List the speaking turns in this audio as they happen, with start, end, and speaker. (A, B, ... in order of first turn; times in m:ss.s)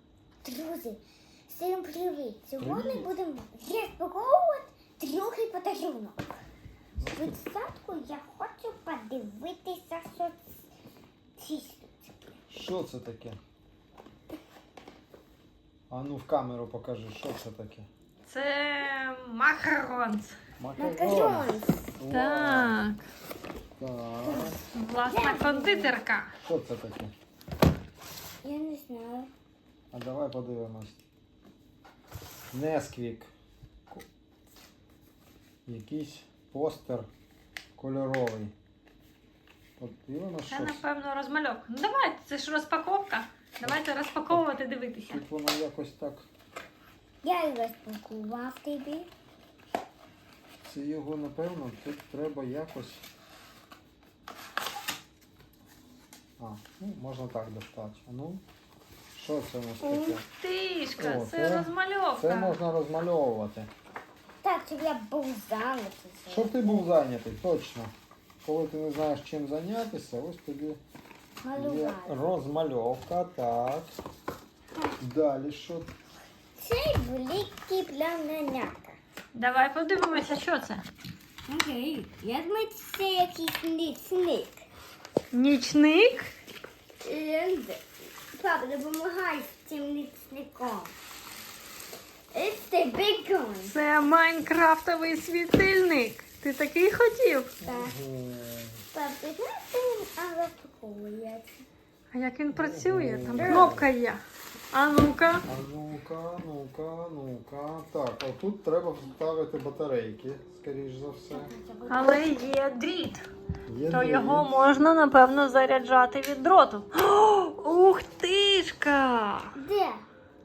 0:00.4-0:06.3 A
0:02.6-0:03.1 B
0:07.0-0:07.4 B
0:07.0-0:10.4 A
0:11.4-0:11.9 A
0:12.5-0:13.4 B
0:15.9-0:17.9 B
0:18.2-0:20.4 C
0:20.6-0:22.8 B
0:20.8-0:22.0 A
0:22.1-0:23.0 C
0:23.8-0:24.6 B
0:24.2-0:24.6 A
0:24.6-0:26.4 C
0:25.1-0:25.9 A
0:26.4-0:27.1 B
0:28.4-0:29.3 A
0:29.9-0:31.0 B
0:32.5-0:33.3 B
0:35.6-0:37.1 B
0:37.8-0:38.5 B
0:39.8-0:40.8 B
0:40.5-0:45.2 C
0:43.6-0:44.4 B
0:45.0-0:46.3 B
0:47.2-0:49.1 A
0:50.6-0:53.0 B
0:56.4-0:58.4 B
0:59.1-1:00.2 B
0:59.8-1:02.6 C
1:01.0-1:03.7 B
1:04.4-1:06.8 A
1:06.3-1:07.9 B
1:08.4-1:10.8 B
1:11.4-1:12.2 A
1:11.6-1:14.0 B
1:15.0-1:15.9 B
1:16.6-1:19.0 A
1:19.3-1:20.9 C
1:21.5-1:24.6 A
1:25.3-1:26.3 C
1:27.0-1:30.9 A
1:32.3-1:33.7 A
1:33.6-1:37.5 C
1:37.6-1:38.8 B
1:37.6-1:37.9 A
1:38.9-1:41.6 A
1:42.1-1:44.2 C
1:42.5-1:43.9 B
1:43.3-1:43.8 A
1:44.7-1:45.4 C
1:45.5-1:51.5 B
1:51.3-1:52.2 A
1:51.9-1:53.2 C
1:53.6-1:54.5 B
1:53.9-1:59.6 C
1:59.6-2:00.0 A